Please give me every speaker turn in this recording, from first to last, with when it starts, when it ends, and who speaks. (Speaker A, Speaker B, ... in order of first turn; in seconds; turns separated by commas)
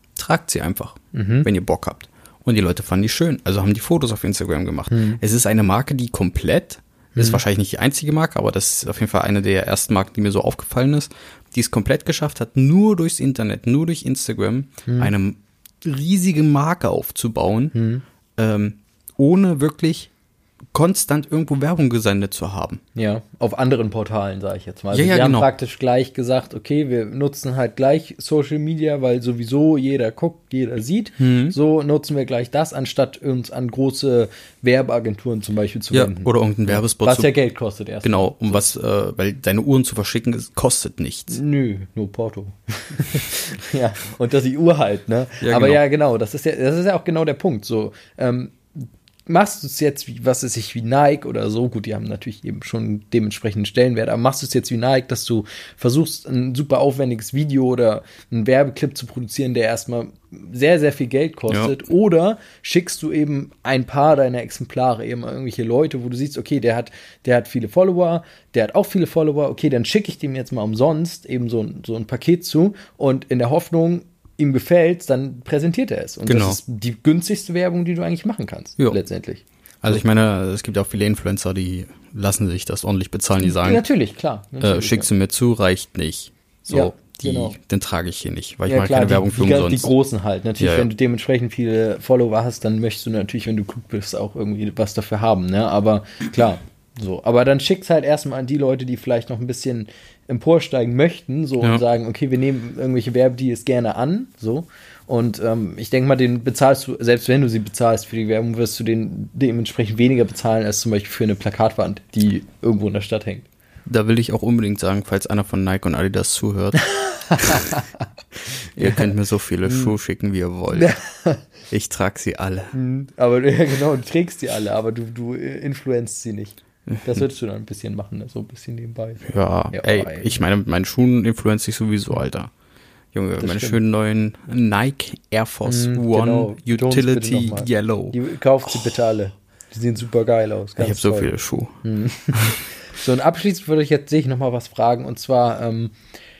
Speaker A: 0.1-17.7, Speaker B: 1.1-1.5, Speaker B: 4.9-5.2, Speaker B: 7.1-7.4, Speaker B: 17.7-18.0, Speaker A: 18.4-20.1, Speaker A: 20.7-22.8, Speaker B: 22.9-38.7, Speaker A: 24.9-25.5, Speaker A: 31.2-31.6, Speaker A: 35.9-37.3, Speaker A: 38.0-41.4, Speaker B: 41.3-80.0, Speaker A: 45.4-45.8, Speaker A: 61.5-61.8, Speaker A: 76.2-76.6, Speaker A: 79.8-83.8, Speaker B: 83.4-85.1, Speaker A: 84.6-89.9, Speaker B: 86.7-87.6, Speaker B: 88.7-113.5, Speaker A: 90.6-90.9, Speaker A: 113.8-117.7, Speaker B: 116.9-118.0, Speaker A: 118.7-120.9, Speaker B: 118.8-119.1, Speaker B: 119.7-119.9, Speaker B: 120.7-121.4, Speaker A: 121.7-122.7, Speaker B: 122.7-130.3, Speaker A: 129.2-132.5, Speaker A: 133.1-138.2, Speaker B: 133.4-133.8, Speaker B: 135.7-141.3, Speaker A: 140.8-141.8, Speaker B: 141.8-145.9, Speaker A: 142.3-142.6